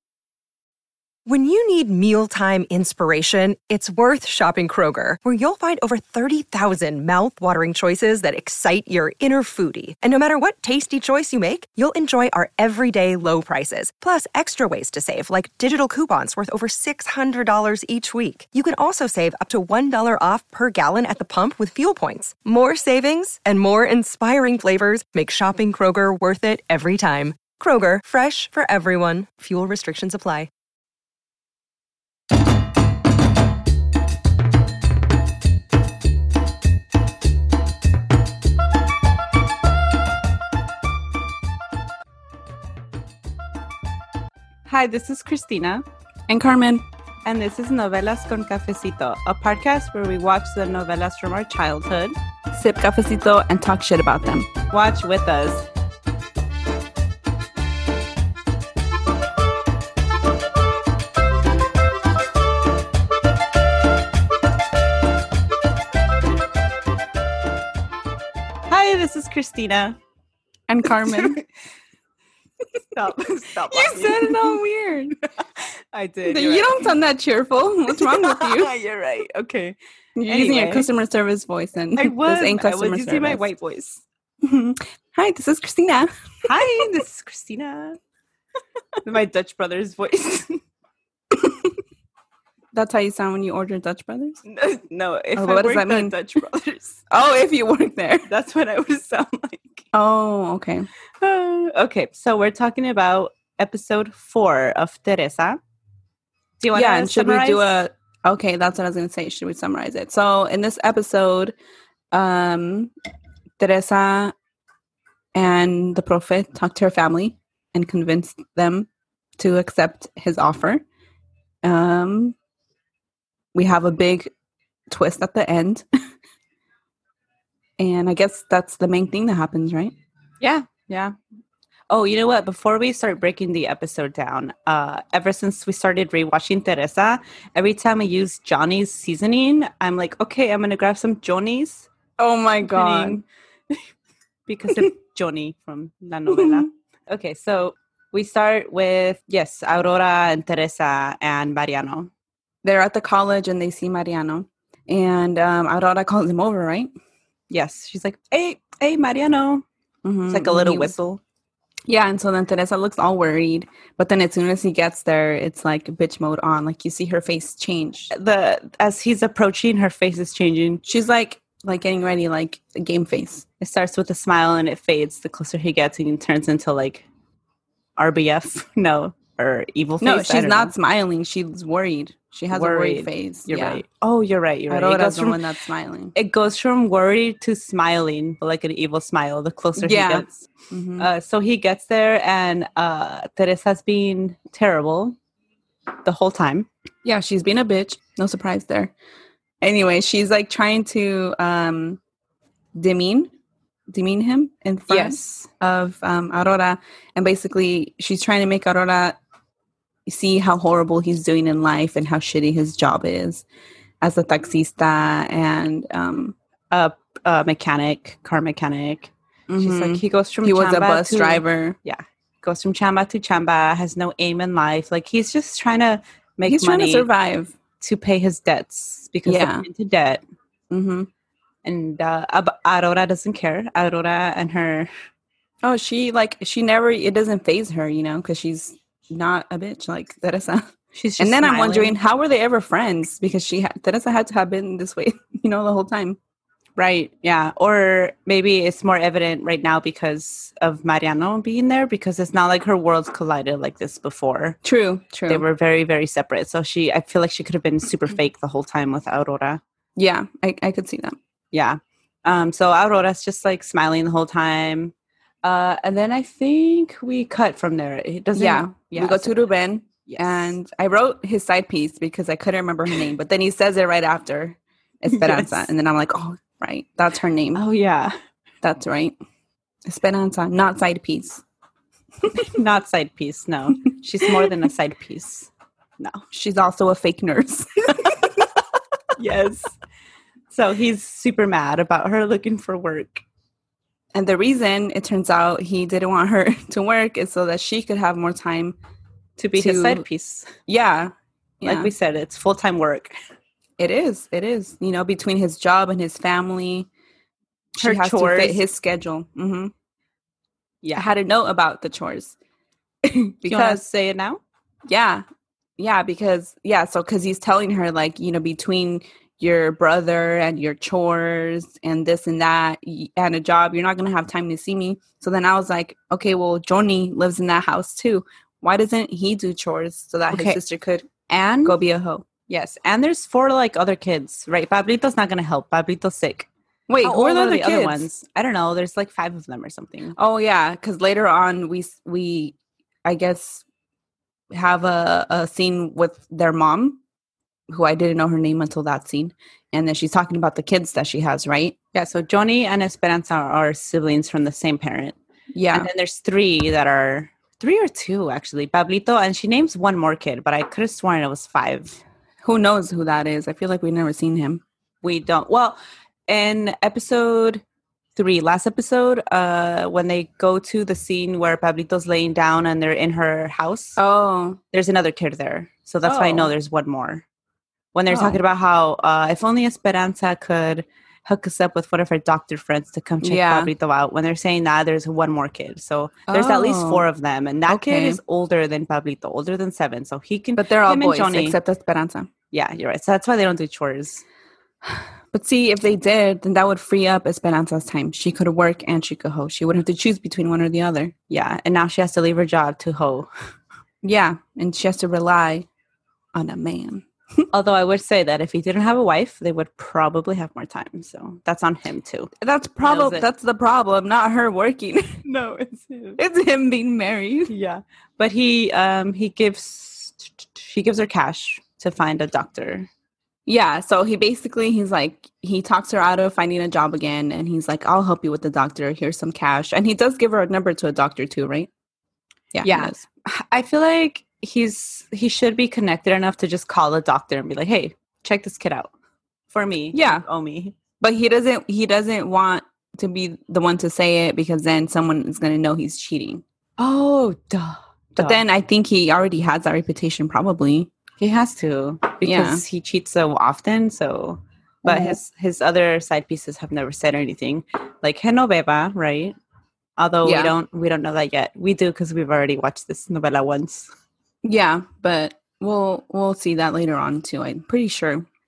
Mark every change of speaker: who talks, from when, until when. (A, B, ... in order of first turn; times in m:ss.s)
0:01.2-0:30.5 A
0:44.7-0:45.8 B
0:46.3-0:46.8 C
0:47.2-0:52.1 B
0:52.5-0:54.5 C
0:54.7-0:55.7 B
1:08.7-1:10.0 B
1:10.7-1:11.4 C
1:10.9-1:11.4 B
1:12.9-1:14.6 B
1:13.7-1:15.1 C
1:15.9-1:16.9 B
1:16.2-1:18.7 C
1:17.9-1:19.8 B
1:20.2-1:23.4 C
1:20.3-1:20.9 B
1:22.0-1:24.0 B
1:24.4-1:26.1 C
1:26.4-1:28.0 B
1:29.0-1:30.6 B
1:31.3-1:31.7 C
1:32.7-1:34.4 C
1:34.4-1:37.0 B
1:35.3-1:36.2 C
1:37.1-1:38.3 C
1:38.3-1:39.8 B
1:39.9-1:40.9 C
1:41.2-1:45.6 B
1:46.6-1:47.8 B
1:46.7-1:51.5 C
1:52.1-1:52.9 C
1:53.6-1:54.3 C
1:55.3-2:00.8 C
2:01.6-2:02.4 C
2:03.5-2:04.3 C
2:04.9-2:05.8 C
2:07.8-2:09.9 C
2:10.4-2:11.2 B
2:11.9-2:21.9 B
2:22.2-2:23.2 C
2:22.6-2:23.8 B
2:24.5-2:32.1 B
2:26.3-2:26.7 C
2:32.6-2:36.9 C
2:37.5-2:39.6 B
2:40.0-2:40.9 C
2:40.3-2:41.2 B
2:41.9-2:48.1 C
2:48.1-2:50.8 B
2:50.8-2:53.4 C
2:53.6-2:57.0 B
2:58.0-3:00.7 B
3:00.0-3:03.8 C
3:02.5-3:05.4 B
3:04.7-3:06.1 C
3:06.1-3:15.2 B
3:09.8-3:11.1 C
3:16.0-3:16.7 B
3:17.0-3:18.9 C
3:19.6-3:22.0 C
3:22.7-3:23.3 C
3:23.9-3:29.2 C
3:24.9-3:25.5 B
3:30.0-3:33.4 C
3:34.0-3:36.3 C
3:36.7-3:47.1 B
3:39.5-3:41.8 C
3:46.4-3:47.5 C
3:47.8-3:50.2 B
3:49.2-3:49.6 C
3:50.7-3:51.1 C
3:51.6-3:54.9 B
3:55.6-4:06.2 C
4:00.9-4:02.0 B
4:06.8-4:14.6 B
4:14.6-4:15.4 C
4:15.3-4:19.6 B
4:20.0-4:21.2 C
4:21.5-4:29.4 B
4:28.3-4:37.6 C
4:30.0-4:30.5 B
4:35.1-4:35.7 B
4:37.5-4:38.1 B
4:38.6-4:39.2 C
4:39.8-4:41.4 C
4:42.4-4:46.2 B
4:46.3-4:48.4 C
4:49.2-4:49.7 B
4:50.5-4:53.2 B
4:54.1-4:58.8 C
4:59.4-5:00.5 B
4:59.6-5:00.0 C
5:00.7-5:01.9 C
5:01.6-5:03.1 B
5:03.8-5:06.9 C
5:07.8-5:09.7 C
5:07.8-5:08.6 B
5:10.9-5:12.3 C
5:13.0-5:13.8 C
5:13.4-5:14.4 B
5:14.9-5:15.2 C
5:15.8-5:31.1 C
5:30.3-5:30.6 B
5:31.3-5:31.8 B
5:31.6-5:32.2 C
5:32.5-5:36.5 B
5:36.9-5:38.1 C
5:37.0-5:40.2 B
5:40.2-5:43.6 C
5:44.5-5:47.0 C
5:47.7-5:51.8 C
5:51.9-5:55.2 B
5:55.5-5:55.9 C
5:55.7-6:02.0 B
6:02.4-6:04.6 C
6:05.0-6:07.6 B
6:08.2-6:14.0 B
6:14.0-6:14.6 C
6:14.7-6:17.2 B
6:16.0-6:16.5 C
6:17.9-6:31.6 B
6:18.1-6:18.4 C
6:23.2-6:23.7 C
6:26.3-6:27.1 C
6:27.7-6:28.2 C
6:30.6-6:32.3 C
6:32.5-6:34.2 B
6:34.8-6:41.1 C
6:41.3-6:43.3 B
6:44.0-6:45.7 C
6:46.3-6:47.0 C
6:47.5-6:53.3 B
6:52.4-6:55.2 C
6:55.2-6:56.2 B
6:56.2-6:57.5 C
6:57.5-7:02.9 B
7:03.4-7:11.7 C
7:12.5-7:13.0 C
7:12.6-7:18.9 B
7:19.5-7:20.7 B
7:19.9-7:20.2 C
7:21.0-7:26.4 C
7:26.8-7:28.4 B
7:28.2-7:30.9 C
7:31.2-7:39.3 B
7:32.2-7:32.6 C
7:34.8-7:35.2 C
7:40.0-7:43.9 B
7:40.2-7:40.5 C
7:44.4-7:48.3 C